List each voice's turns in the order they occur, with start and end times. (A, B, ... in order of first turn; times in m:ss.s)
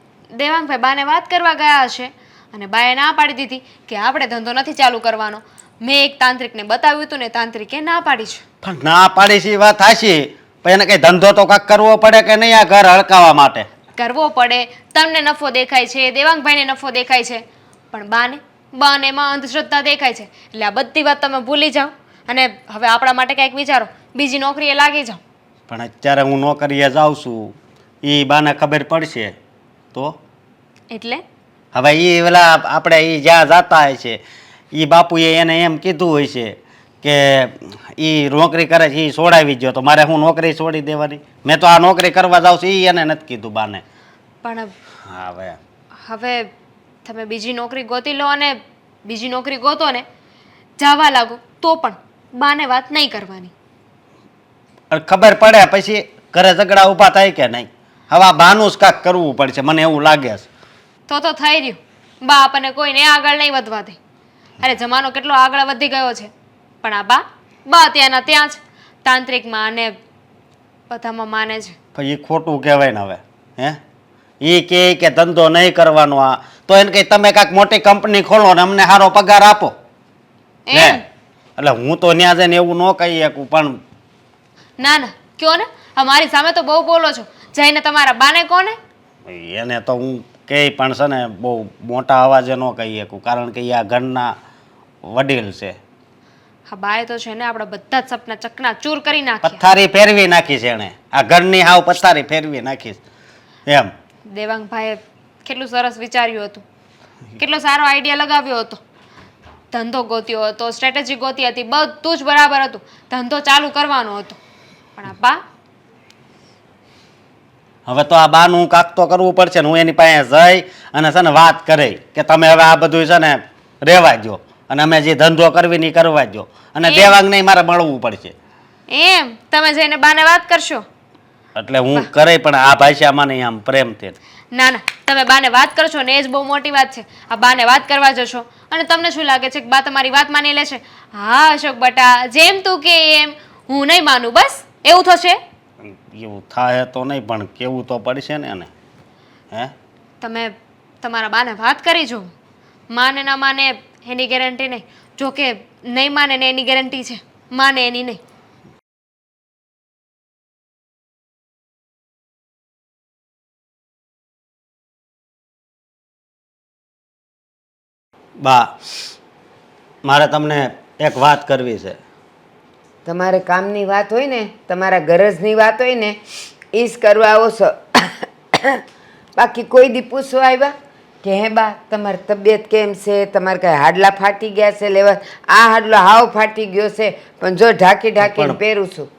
0:00.3-0:08.4 A
0:08.6-0:13.7 B
0:14.0-0:25.2 A
0:25.7-0:29.4 B
0:30.9-0:31.2 A
0:31.7-0:34.2 B
0:34.7-0:43.8 B
0:44.4-0:44.7 A
0:45.1-0:45.6 B
0:46.0-0:46.5 A
0:47.0-0:50.1 A
0:50.8-0:53.5 A
0:54.9-1:00.5 B
1:01.1-1:04.0 A
1:04.6-1:06.3 A
1:06.8-1:10.0 A
1:10.9-1:11.8 A
1:12.0-1:13.8 B
1:14.4-1:19.8 B
1:20.7-1:21.0 A
1:20.7-1:21.0 B
1:21.6-1:23.8 B
1:24.8-1:28.8 A
1:29.3-1:34.4 B
1:35.1-1:35.8 B
1:36.7-1:39.6 A
1:39.4-1:43.0 B
1:43.7-1:43.9 B
1:44.3-1:46.6 A
1:47.4-1:48.8 A
1:49.7-1:54.4 A
1:55.0-1:55.4 A
1:57.9-2:08.4 B
2:06.8-2:07.2 A
2:08.9-2:10.8 A
2:11.6-2:14.2 B
2:14.5-2:25.4 A
2:25.8-2:28.7 B
2:30.2-2:32.3 A
2:32.9-2:38.2 A
2:48.4-2:48.7 B
2:50.0-2:52.0 B
2:53.1-2:56.2 C
2:56.7-2:58.8 C
2:59.4-3:09.1 C
3:08.2-3:08.6 B